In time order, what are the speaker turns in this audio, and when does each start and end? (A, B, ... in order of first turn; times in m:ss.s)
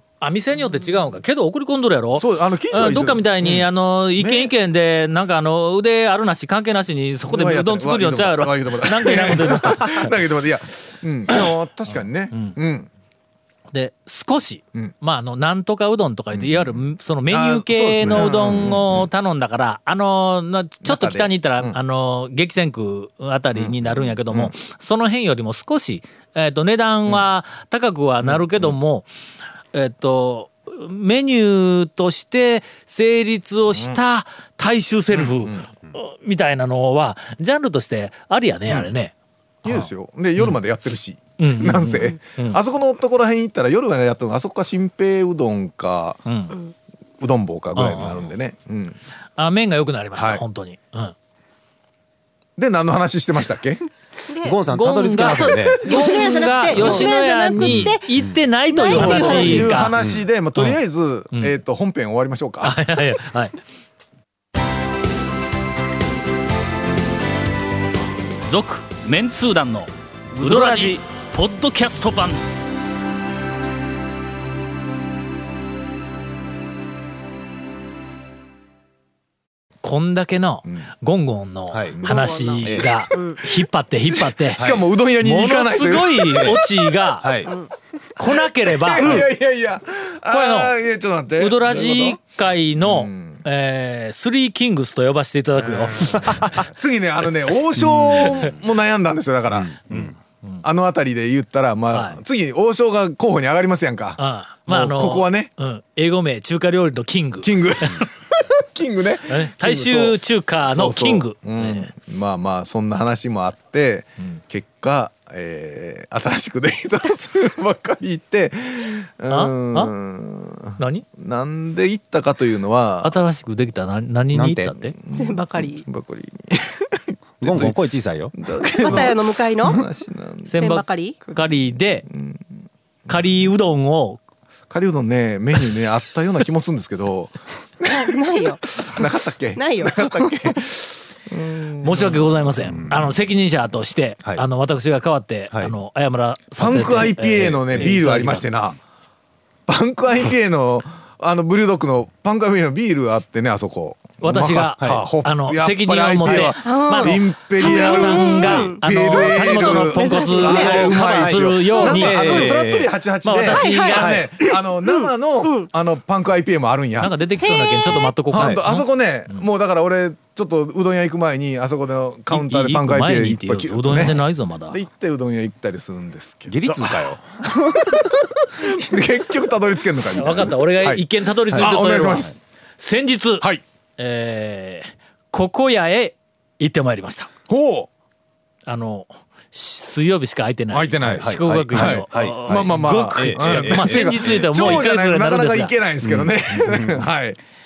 0:00.2-0:10.1 A
0:02.2-0:04.5 B
0:07.3-0:12.9 B
0:11.9-0:12.6 A
0:13.7-0:29.1 A
0:16.3-0:19.1 B
0:20.8-0:21.8 B
0:23.5-0:24.5 B
0:28.2-0:28.8 B
0:29.7-0:39.1 A
0:33.7-0:34.0 B
0:35.1-0:35.7 B
0:39.6-0:46.2 B
0:39.6-0:40.6 A
0:41.4-0:42.6 A
0:46.3-0:46.6 A
0:47.2-0:49.0 B
0:47.8-0:48.3 A
0:49.4-0:51.2 A
0:50.2-0:50.4 B
0:52.6-0:53.8 B
0:54.3-0:54.6 C
0:54.4-0:56.2 D
0:54.7-1:00.0 A
0:55.2-0:58.1 C
0:57.6-0:58.4 D
0:58.7-0:59.8 C
0:58.8-1:02.8 B
1:00.0-1:00.2 D
1:00.6-1:00.8 A
1:02.6-1:03.5 A
1:08.4-1:12.4 A
1:10.4-1:11.0 D
1:19.8-1:24.6 A
1:21.7-1:22.0 D
1:22.0-1:23.4 C
1:22.6-1:22.9 D
1:24.6-1:26.7 B
1:24.6-1:24.9 D
1:25.2-1:27.4 A
1:27.2-1:27.5 D
1:28.2-1:29.2 A
1:28.3-1:32.2 B
1:29.0-1:29.3 C
1:30.3-1:30.8 A
1:31.3-1:36.6 A
1:32.8-1:33.4 B
1:35.6-1:40.0 B
1:39.9-1:40.6 A
1:40.6-1:45.5 B
1:41.9-1:42.2 A
1:44.2-1:48.1 A
1:47.4-2:03.2 B
1:49.3-1:51.9 A
1:59.3-1:59.9 A
2:00.8-2:01.0 A
2:03.0-2:05.0 A
2:04.3-2:04.8 D
2:04.8-2:07.8 B
2:05.1-2:05.9 C
2:07.4-2:08.4 D
2:08.3-2:10.8 B
2:08.6-2:09.8 C
2:10.4-2:12.1 A
2:10.6-2:11.4 C
2:12.1-2:12.5 B
2:13.1-2:14.2 A
2:14.7-2:18.1 B
2:17.9-2:20.7 C
2:18.8-2:22.3 B
2:21.8-2:28.5 A
2:26.6-2:28.8 B
2:27.7-2:28.0 D
2:29.7-2:47.2 B
2:34.2-2:42.4 A
2:36.3-2:41.1 C
2:40.8-2:42.9 D
2:41.6-2:42.5 C
2:43.2-2:44.1 A
2:43.5-2:45.7 C
2:44.0-2:44.2 D
2:47.0-2:49.5 A
2:47.4-2:48.1 C
2:48.3-3:02.3 B
2:52.3-2:54.8 A
2:56.5-2:57.2 D
3:00.1-3:07.3 A
3:07.5-3:07.9 B
3:08.7-3:15.8 A
3:10.7-3:17.4 B
3:11.1-3:14.6 D
3:16.0-3:17.0 D